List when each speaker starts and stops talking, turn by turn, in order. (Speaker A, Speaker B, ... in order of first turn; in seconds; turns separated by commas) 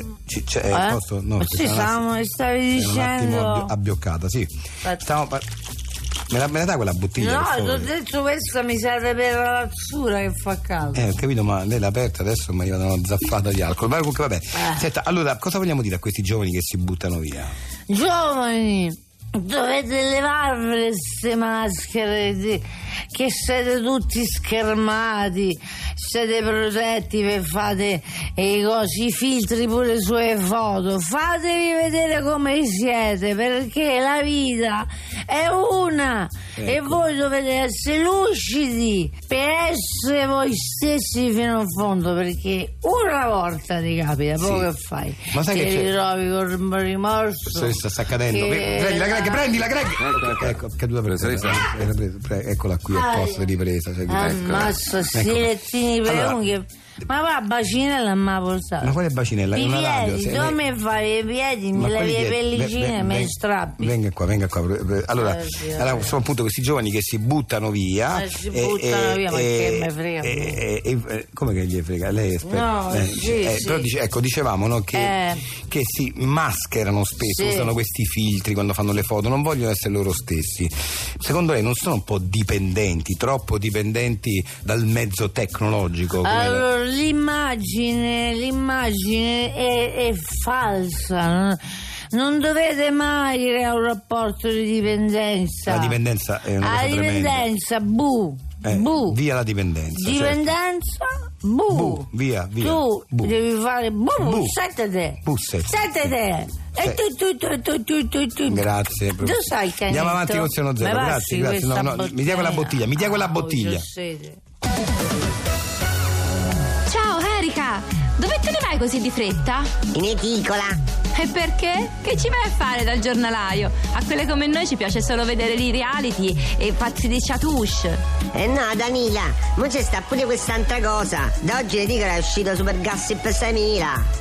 Speaker A: 0.3-2.0, Speaker B: 0.7-3.7, Speaker A: 2.7-5.5, Speaker A: 6.3-7.9, Speaker B: 7.2-11.1, Speaker A: 10.9-17.5, Speaker B: 17.9-49.6, Speaker A: 36.6-37.0, Speaker A: 44.4-44.7, Speaker A: 45.3-45.9, Speaker A: 47.5-55.5, Speaker B: 52.9-53.5, Speaker B: 54.1-59.0, Speaker A: 56.0-56.4, Speaker A: 58.8-60.6, Speaker B: 59.5-64.0, Speaker A: 61.7-86.7, Speaker B: 65.2-66.2, Speaker B: 68.1-70.6, Speaker B: 72.4-73.9, Speaker B: 74.9-75.5, Speaker B: 77.2-77.7, Speaker B: 86.2-91.6, Speaker B: 92.1-96.0, Speaker A: 95.7-97.5, Speaker B: 96.6-99.2, Speaker A: 98.6-100.5, Speaker B: 99.9-102.1, Speaker A: 101.7-103.3, Speaker B: 102.6-108.7, Speaker A: 104.2-104.6, Speaker A: 105.2-106.2, Speaker A: 108.5-113.9, Speaker B: 109.2-114.4, Speaker C: 116.9-119.7, Speaker D: 119.9-120.8, Speaker C: 121.2-128.0, Speaker D: 128.3-134.1